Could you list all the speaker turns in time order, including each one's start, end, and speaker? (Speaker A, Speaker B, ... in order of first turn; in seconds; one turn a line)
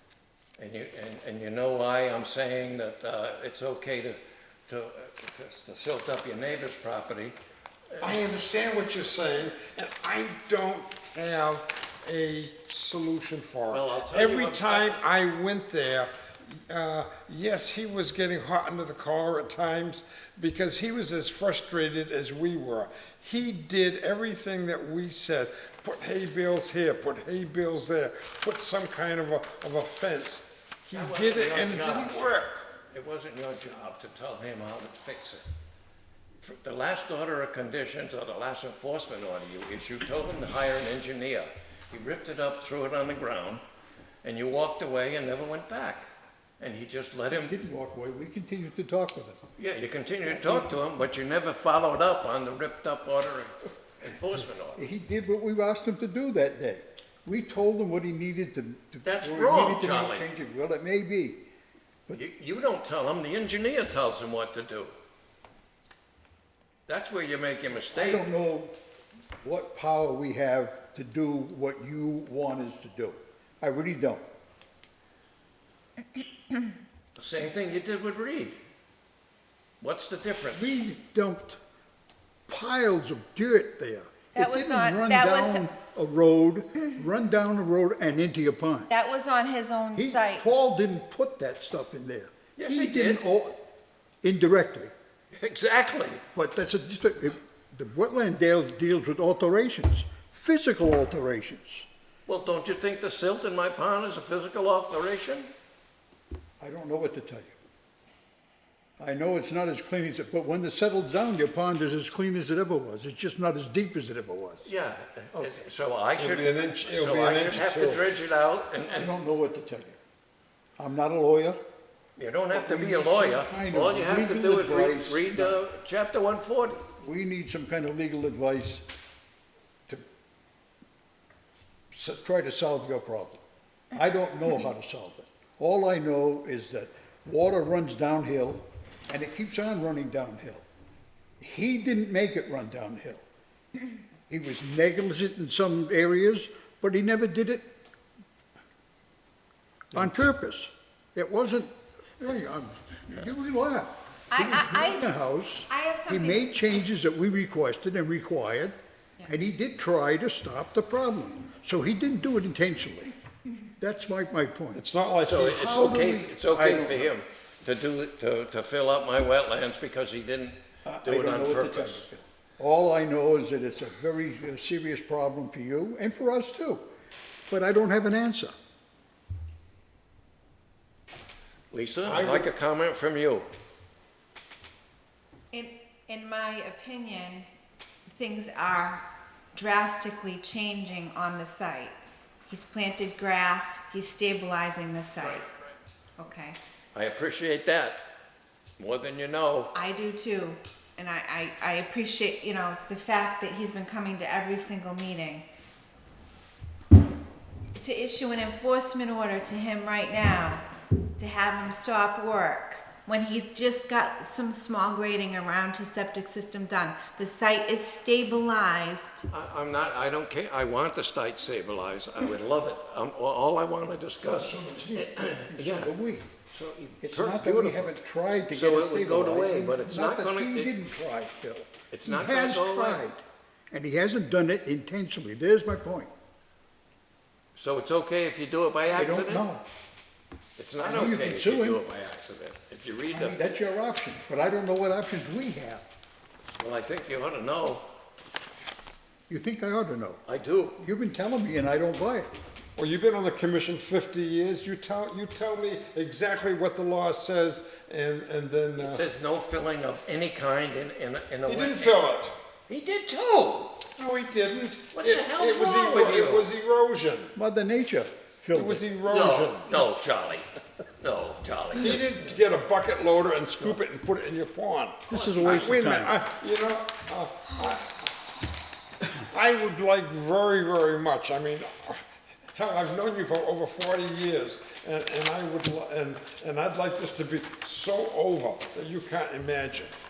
Speaker A: 0.6-7.4
Speaker B: 8.0-32.7
Speaker A: 13.7-15.0
Speaker A: 30.9-32.3
Speaker A: 32.9-35.5
Speaker A: 36.4-43.6
Speaker A: 44.2-46.1
Speaker A: 46.6-47.5
Speaker C: 47.3-49.4
Speaker A: 49.6-54.8
Speaker C: 50.3-50.7
Speaker C: 54.8-61.5
Speaker A: 59.0-60.3
Speaker A: 62.1-65.0
Speaker A: 66.9-68.3
Speaker C: 67.9-68.8
Speaker C: 69.4-74.2
Speaker A: 77.2-78.6
Speaker A: 79.8-80.7
Speaker C: 80.5-81.6
Speaker C: 82.5-88.9
Speaker D: 84.3-85.7
Speaker D: 88.9-90.5
Speaker C: 89.9-93.6
Speaker A: 92.6-93.2
Speaker C: 94.2-94.9
Speaker A: 95.3-96.2
Speaker C: 96.3-101.9
Speaker A: 102.3-105.5
Speaker C: 106.6-107.6
Speaker C: 109.0-114.7
Speaker A: 114.6-119.1
Speaker C: 115.3-115.6
Speaker B: 116.2-118.1
Speaker C: 118.9-120.0
Speaker C: 120.8-121.6
Speaker A: 122.2-126.8
Speaker C: 122.5-125.6
Speaker C: 127.0-128.8
Speaker C: 131.9-133.4
Speaker C: 133.9-140.7
Speaker C: 141.4-143.2
Speaker C: 144.3-147.7
Speaker C: 149.9-158.7
Speaker D: 154.3-155.1
Speaker D: 155.7-156.8
Speaker C: 159.3-163.2
Speaker C: 163.8-164.8
Speaker B: 164.7-165.9
Speaker A: 165.2-172.1
Speaker C: 165.5-167.2
Speaker C: 170.8-176.8
Speaker C: 177.5-178.5
Speaker A: 181.7-183.5
Speaker B: 182.0-182.5
Speaker D: 185.5-187.5
Speaker D: 188.1-195.5
Speaker D: 196.2-196.6
Speaker A: 196.9-198.1
Speaker A: 198.8-199.7
Speaker D: 199.8-205.4
Speaker D: 207.8-210.6
Speaker D: 211.2-219.3
Speaker A: 219.3-230.7
Speaker C: 224.3-226.3
Speaker C: 227.0-236.1
Speaker A: 231.9-233.1
Speaker A: 237.6-239.5
Speaker C: 238.9-239.6
Speaker A: 240.6-243.4
Speaker C: 240.8-241.8
Speaker C: 243.1-245.8
Speaker A: 246.6-247.9
Speaker C: 249.3-250.2
Speaker A: 250.3-250.8
Speaker C: 250.8-252.3
Speaker B: 252.8-259.0
Speaker A: 258.8-262.0
Speaker B: 261.5-262.4
Speaker A: 262.7-263.8
Speaker B: 264.0-267.3
Speaker A: 264.9-266.5
Speaker C: 267.4-268.9
Speaker B: 268.5-269.9
Speaker A: 269.1-272.2
Speaker B: 271.8-278.0
Speaker C: 275.1-276.2
Speaker B: 279.3-282.0
Speaker B: 282.5-290.0